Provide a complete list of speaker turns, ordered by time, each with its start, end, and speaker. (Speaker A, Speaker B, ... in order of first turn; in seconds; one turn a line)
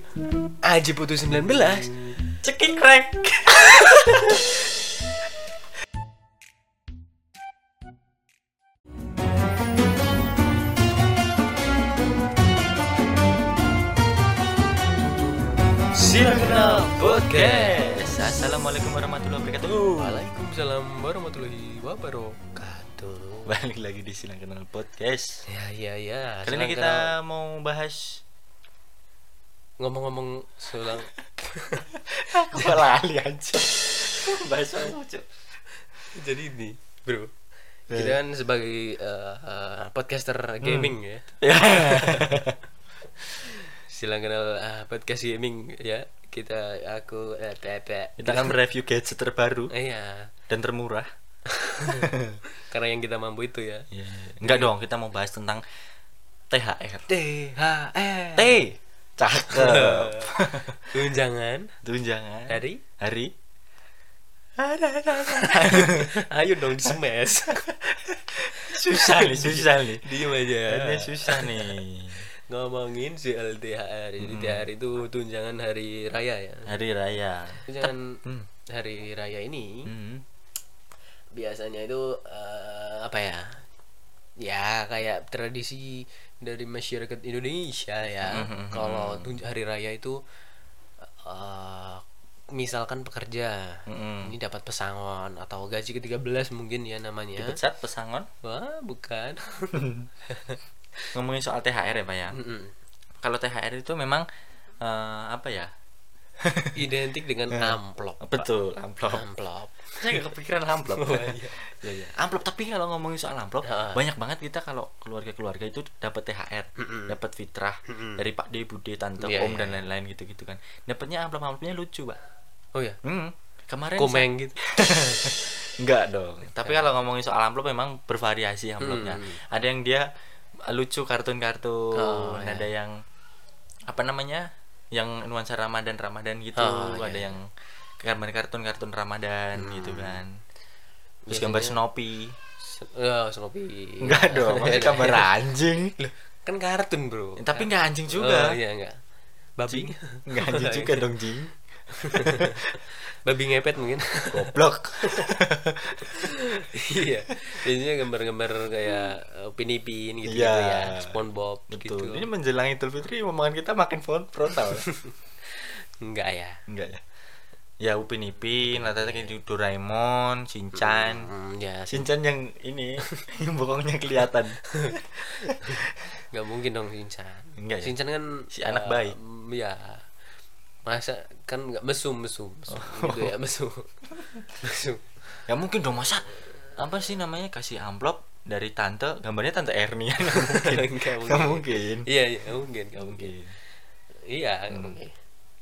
Speaker A: 0.6-2.2
Speaker B: 2.4-4.6
Speaker B: 15.9-20.3
Speaker A: 16.1-18.2
Speaker A: 19.7-23.6
Speaker B: 23.4-25.4
Speaker A: 25.5-27.1
Speaker B: 26.4-28.2
Speaker A: 29.8-31.9
Speaker B: 32.1-35.2
Speaker A: 32.5-32.9
Speaker A: 36.1-37.3
Speaker A: 37.9-42.5
Speaker B: 37.9-38.2
Speaker B: 40.6-42.6
Speaker A: 43.3-48.5
Speaker B: 48.2-49.7
Speaker A: 49.7-50.3
Speaker B: 50.5-51.1
Speaker A: 51.5-53.9
Speaker B: 51.9-52.4
Speaker B: 53.9-55.6
Speaker A: 54.4-54.7
Speaker B: 56.5-57.0
Speaker A: 57.1-58.6
Speaker B: 58.4-61.0
Speaker A: 59.3-61.7
Speaker B: 61.8-63.3
Speaker A: 62.5-62.8
Speaker B: 64.6-66.1
Speaker A: 65.1-67.7
Speaker B: 67.5-70.1
Speaker A: 68.6-71.8
Speaker B: 70.6-72.2
Speaker A: 72.5-76.8
Speaker B: 74.2-74.6
Speaker B: 76.7-78.5
Speaker A: 77.6-79.9
Speaker B: 79.9-80.2
Speaker A: 81.3-83.6
Speaker A: 84.4-90.2
Speaker B: 88.2-89.4
Speaker A: 91.2-92.0
Speaker A: 92.5-97.6
Speaker B: 93.9-94.3
Speaker B: 97.4-98.3
Speaker A: 98.4-100.6
Speaker B: 99.7-100.1
Speaker B: 101.1-102.3
Speaker A: 102.3-102.7
Speaker B: 103.2-104.2
Speaker B: 104.8-105.7
Speaker B: 106.4-106.8
Speaker A: 106.7-108.5
Speaker B: 107.5-109.2
Speaker A: 109.1-111.7
Speaker B: 109.9-122.2
Speaker A: 113.6-114.0
Speaker A: 116.8-117.1
Speaker A: 117.9-118.2
Speaker A: 119.2-119.8
Speaker B: 123.0-130.1
Speaker A: 124.0-124.6
Speaker A: 126.4-126.8
Speaker A: 128.8-129.4
Speaker B: 130.6-132.9
Speaker A: 132.0-132.7
Speaker B: 133.9-137.5
Speaker A: 136.6-137.4
Speaker B: 138.0-140.4
Speaker A: 139.6-140.2
Speaker A: 141.3-141.8
Speaker B: 141.3-142.3
Speaker A: 142.7-145.3
Speaker B: 144.0-145.9
Speaker A: 146.0-149.0
Speaker B: 147.4-148.6
Speaker A: 149.6-151.1
Speaker B: 149.7-151.5
Speaker A: 151.9-155.3
Speaker B: 152.1-152.8
Speaker B: 154.3-156.1
Speaker A: 156.1-162.3
Speaker B: 160.3-161.2
Speaker B: 161.7-164.8
Speaker A: 164.6-166.6
Speaker B: 166.7-167.0
Speaker B: 167.8-171.3
Speaker A: 168.6-169.3
Speaker A: 170.8-172.1
Speaker B: 171.9-175.8
Speaker A: 174.7-180.0
Speaker B: 177.6-177.9
Speaker B: 178.5-179.2
Speaker A: 180.8-183.9
Speaker B: 182.7-183.3
Speaker A: 184.5-185.2
Speaker B: 185.5-192.1
Speaker A: 190.2-193.3
Speaker B: 193.0-193.6
Speaker A: 194.3-195.1
Speaker B: 194.7-195.0